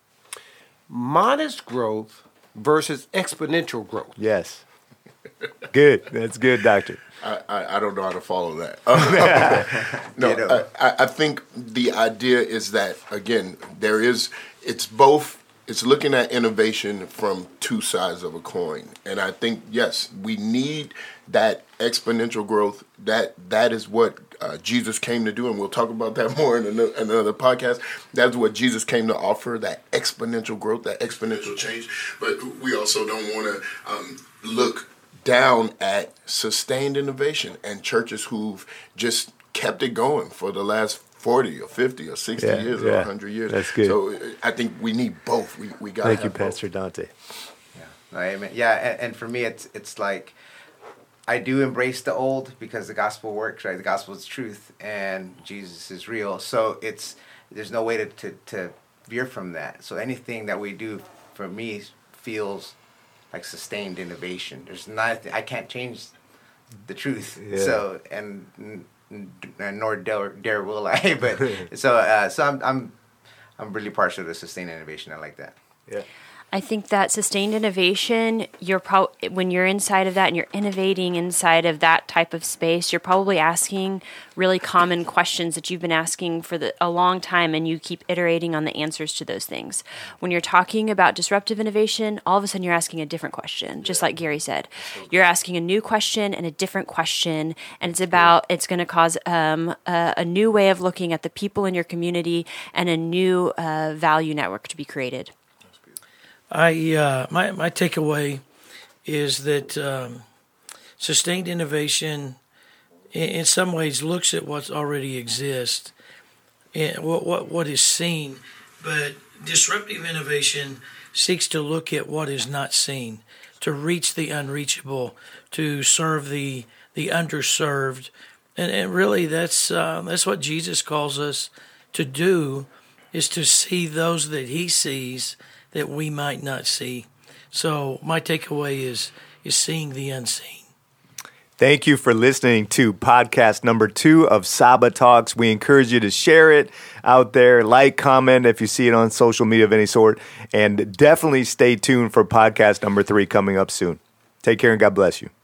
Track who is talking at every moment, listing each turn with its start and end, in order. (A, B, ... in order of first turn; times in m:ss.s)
0:00.9-0:04.2 A
0:04.2-0:04.6 B
0:05.7-0:07.0 B
0:07.2-0:46.6 C
0:09.0-0:09.6 B
0:09.5-0:10.6 D
0:42.4-0:44.0 B
0:46.0-0:47.1 B
0:47.7-0:50.3 D
0:51.3-1:02.7 D
1:03.3-1:06.1 D
1:06.8-1:13.0 D
1:07.4-1:07.8 B
1:13.6-1:15.6 D
1:16.5-1:45.3 E
1:33.8-1:34.2 C
1:34.8-1:35.3 C
1:38.0-1:38.3 C
1:46.5-1:48.4 F
1:49.0-1:50.2 F
1:51.0-1:52.4 F
1:53.1-1:55.9 F
1:56.7-2:20.7 F
2:21.6-2:35.3 B